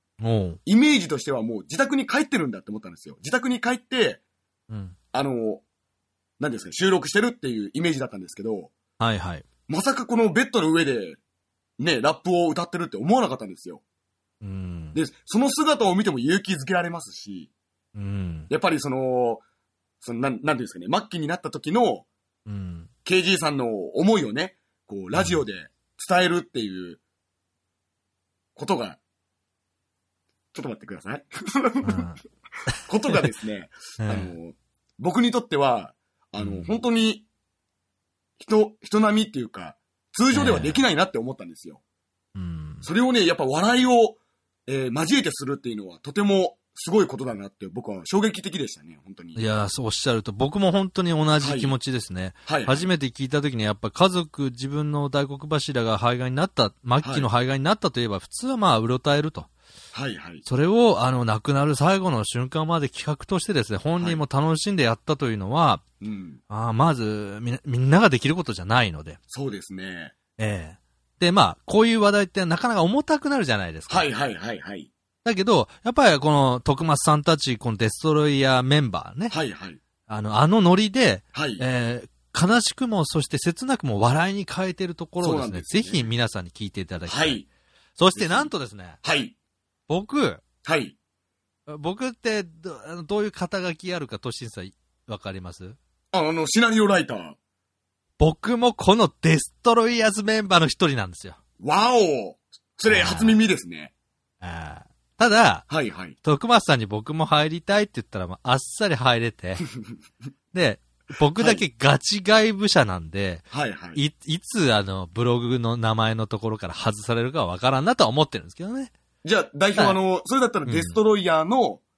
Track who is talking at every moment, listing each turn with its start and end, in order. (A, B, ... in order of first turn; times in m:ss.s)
0:00.2-0:00.6 A
0:00.7-0:04.2 B
0:04.7-0:05.0 A
0:05.1-0:05.6 B
0:06.4-0:08.7 B
0:09.0-0:09.4 A
0:09.7-0:11.2 B
0:11.8-0:13.8 B
0:14.4-0:15.0 A
0:14.9-0:17.5 B
0:18.0-0:18.5 A
0:18.5-0:19.4 B
0:20.0-0:22.1 B
0:22.5-0:22.9 A
0:23.0-0:27.0 B
0:28.6-0:29.0 B
0:30.5-0:32.1 B
0:31.8-0:33.3 A
0:32.9-0:37.2 B
0:34.0-0:34.3 A
0:36.4-0:36.8 A
0:38.4-0:41.8 B
0:40.3-0:40.8 A
0:42.4-0:42.9 A
0:42.8-0:49.4 B
0:49.4-0:59.5 A
0:51.4-0:51.8 B
0:52.5-0:52.9 B
0:57.0-0:57.3 B
0:59.9-1:00.4 B
1:00.4-1:05.8 A
1:06.0-1:06.4 B
1:06.5-1:09.2 A
1:09.3-1:10.2 B
1:10.4-1:14.1 A
1:13.9-1:14.9 B
1:15.2-1:19.4 A
1:19.3-1:19.8 B
1:20.1-1:27.4 A
1:21.3-1:21.6 B
1:25.2-1:26.1 B
1:27.1-1:27.4 B
1:28.0-1:29.0 A
1:28.2-1:28.5 B
1:29.0-1:29.3 B
1:29.9-1:30.4 A
1:30.6-1:30.9 B
1:31.7-1:35.8 A
1:36.1-1:37.4 B
1:38.2-1:41.4 A
1:41.6-1:43.9 B
1:42.9-1:43.4 A
1:44.4-1:45.7 A
1:45.7-1:46.2 B
1:46.2-1:49.6 A
1:50.5-1:58.9 A
1:51.4-1:51.6 B
1:53.5-1:54.0 B
1:59.2-2:01.8 B
2:00.7-2:01.0 A